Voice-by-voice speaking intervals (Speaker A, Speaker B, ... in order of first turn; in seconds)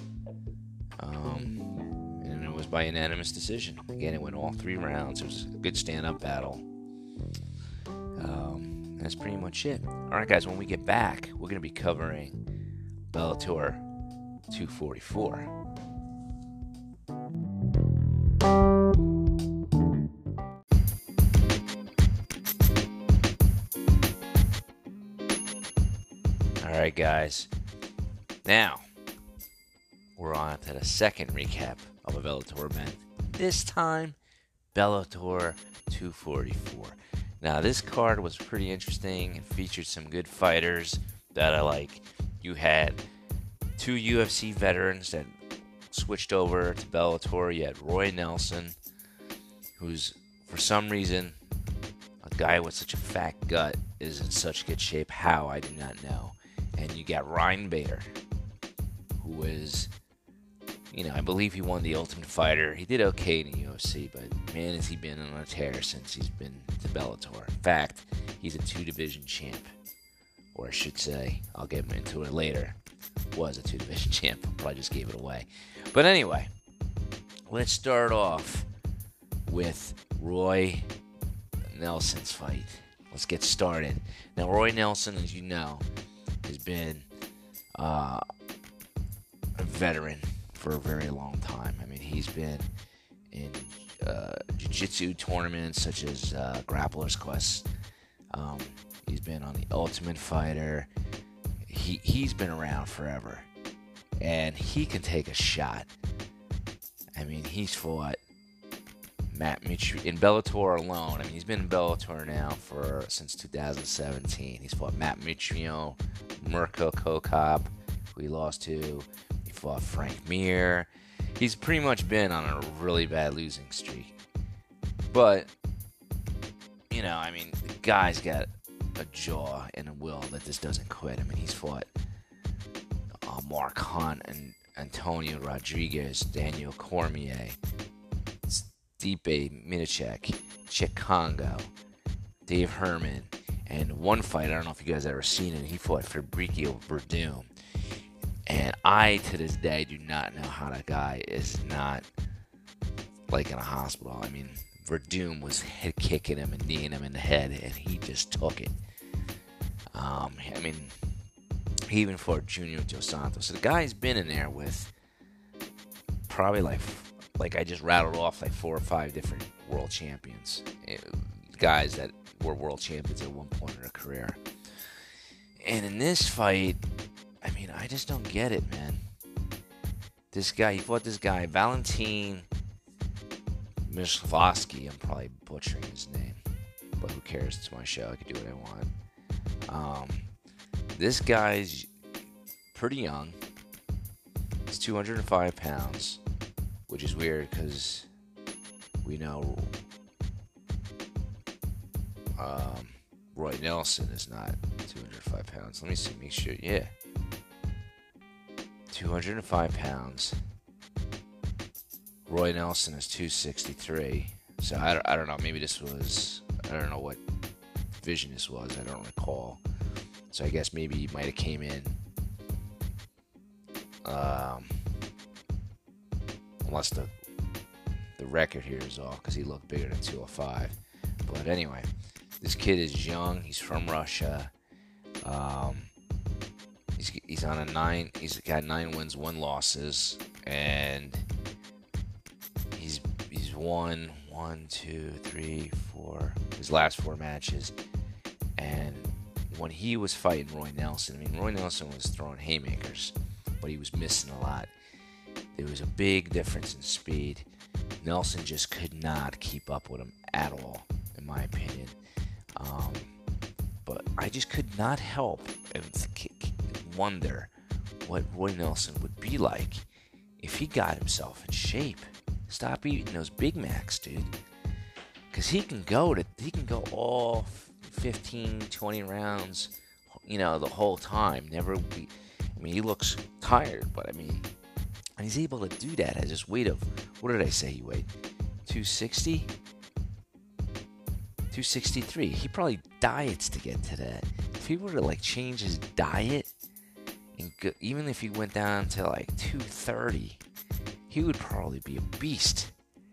Speaker A: 1.0-6.6, 8.2-12.4, 13.1-13.8, 14.5-15.5, 26.6-27.5, 28.4-28.8, 30.2-34.2, 34.7-43.0, 43.8-45.3, 45.9-48.7, 49.8-51.4, 52.2-58.1, 59.2-59.9, 60.9-69.7, 70.5-72.8, 73.3-76.5, 77.5-78.7, 79.5-80.9, 81.7-85.8, 86.4-87.0, 87.8-88.2, 89.6-92.7, 93.3-97.7, 98.3-100.9, 101.6-103.5, 104.2-105.9, 107.2-108.2, 109.3-124.1, 125.1-125.5, 126.9-131.9, 133.2-137.6, 138.5-141.7, 142.5-147.5, 148.5-152.1, 153.3-158.7, 159.9-160.9, 161.9-164.9, 166.3-174.4, 175.6-176.8, 177.4-179.0, 180.3-182.5, 183.8-186.4, 187.0-188.9, 189.7-190.2, 190.9-191.9, 192.7-193.4, 194.7-196.2, 196.9-198.1, 199.0-199.7, 202.4-206.9, 208.9-210.4, 212.2-217.2, 218.0-219.6, 220.3-222.0, 224.0-224.8, 226.6-227.1, 228.2-231.9, 232.4-234.5, 235.2-235.9, 236.9-241.2, 242.7-247.7, 248.6-254.7, 255.5-257.4, 258.0-261.9, 262.6-263.1, 263.9-267.5, 268.0-269.8, 270.4-274.3, 275.3-279.7, 280.2-284.5, 285.2-288.1, 288.6-289.5, 291.5-296.5, 297.4-300.4, 301.1-302.7